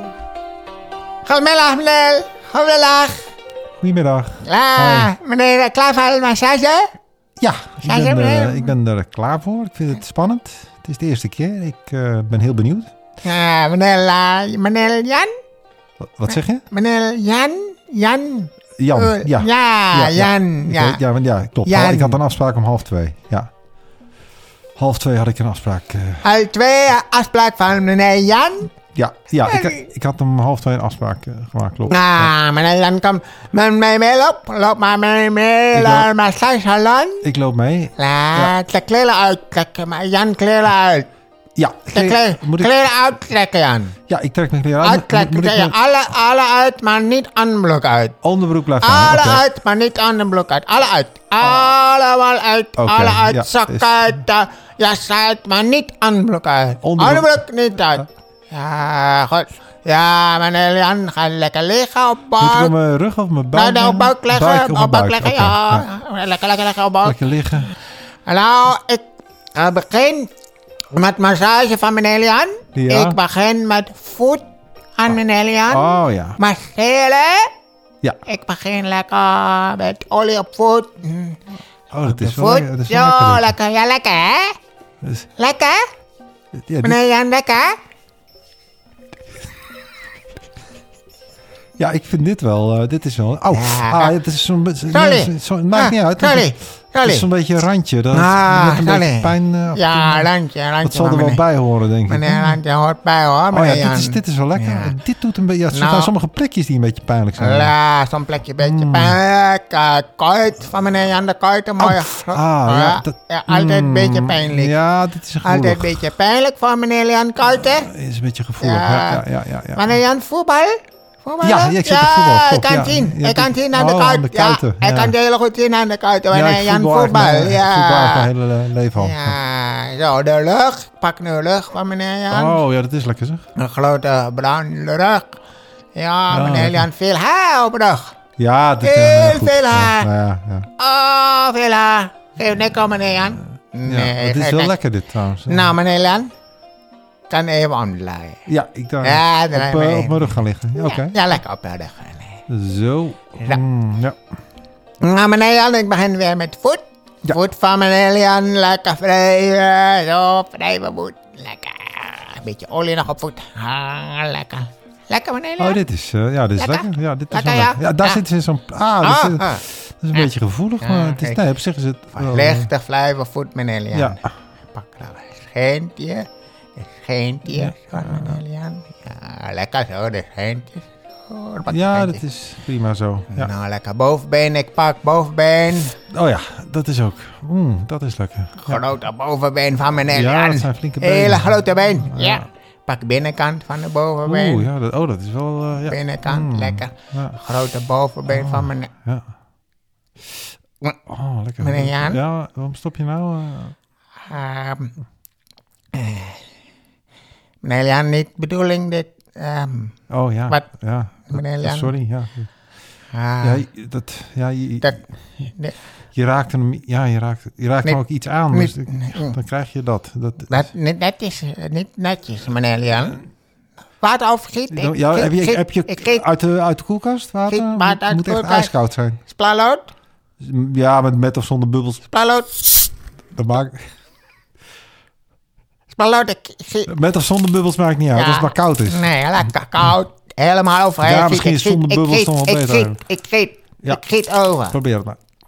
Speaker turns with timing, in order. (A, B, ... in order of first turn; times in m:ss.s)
0:01.2-0:03.2 A
0:03.8-0:05.1 B
0:04.4-0:06.9 A
0:07.4-0:12.9 B
0:07.8-0:08.7 A
0:13.2-0:15.3 A
0:16.0-0:16.6 B
0:16.3-0:21.0 A
0:18.8-0:23.5 B
0:21.6-0:22.2 A
0:24.8-0:26.2 B
0:26.2-0:28.7 A
0:28.9-0:32.3 B
0:29.5-0:29.8 A
0:31.9-0:37.2 A
0:35.7-0:36.1 B
0:37.2-0:38.5 B
0:38.0-0:41.1 A
0:41.6-0:42.9 B
0:41.9-0:44.0 A
0:44.1-0:45.8 B
0:44.8-0:48.2 A
0:48.2-0:49.4 B
0:48.8-1:02.7 A
0:52.8-0:54.2 B
0:56.8-0:57.4 B
1:02.4-1:05.9 B
1:03.5-1:07.2 A
1:07.0-1:07.7 B
1:08.3-1:10.3 A
1:10.9-1:14.4 A
1:12.8-1:13.2 B
1:15.0-1:17.5 A
1:15.7-1:16.4 B
1:18.3-1:21.4 A
1:21.9-1:23.6 B
1:22.0-1:24.6 A
1:25.0-1:25.3 B
1:25.4-1:25.8 A
1:26.6-1:27.0 B
1:26.8-1:27.8 A
1:31.8-1:40.3 B
1:33.5-1:34.2 A
1:34.9-1:37.3 A
1:38.1-1:41.4 A
1:40.8-1:42.6 B
1:42.1-1:45.0 A
1:43.5-1:47.7 B
1:45.7-1:46.1 A
1:47.4-1:54.7 A
1:48.6-1:49.2 B
1:51.8-1:56.0 B
1:55.4-1:57.9 A
1:57.6-2:00.0 B
1:58.6-2:08.3 A
2:01.4-2:05.2 B
2:06.3-2:09.4 B
2:09.0-2:12.6 A
2:12.3-2:13.4 B
2:13.6-2:15.3 A
2:16.0-2:18.1 A
2:16.3-2:16.9 B
2:18.4-2:20.7 B
2:18.8-2:20.1 A
2:20.8-2:24.8 A
2:23.9-2:25.7 B
2:25.5-2:26.3 A
2:27.3-2:28.4 A
2:28.5-2:31.2 B
2:29.0-2:32.4 A
2:32.5-2:34.2 B
2:35.0-2:45.8 A
2:45.6-2:52.7 B
2:46.6-2:48.2 A
2:49.0-2:49.6 A
2:50.8-2:51.4 A
2:52.2-2:54.2 A
2:53.9-2:54.3 B
2:54.7-3:02.2 A
2:57.5-2:58.4 B
3:01.7-3:03.5 B
3:03.3-3:06.0 A
3:06.1-3:08.9 B
3:08.6-3:14.7 A
3:10.1-3:12.5 B
3:14.3-3:17.4 B
3:15.8-3:18.9 A
3:18.3-3:19.3 B
3:21.1-3:23.8 B
3:21.6-3:22.2 A
3:24.3-3:25.0 A
3:25.9-3:26.4 A
3:27.6-3:30.0 A
3:30.1-3:32.5 B
3:31.3-3:31.9 A
3:33.1-3:33.6 A
3:33.4-3:34.9 B
3:34.8-3:35.8 A
3:36.1-3:40.6 B
3:38.5-3:39.4 A
3:40.5-3:43.2 A
3:44.0-3:46.2 A
3:44.7-3:49.2 B
3:47.5-3:48.7 A
3:49.3-3:49.9 A
3:50.4-3:52.0 B
3:52.1-3:52.9 A
3:53.4-3:53.9 B
3:55.9-3:56.9 A
3:56.9-3:59.1 B
3:58.1-4:04.8 A
4:01.0-4:03.0 B
4:04.7-4:05.2 B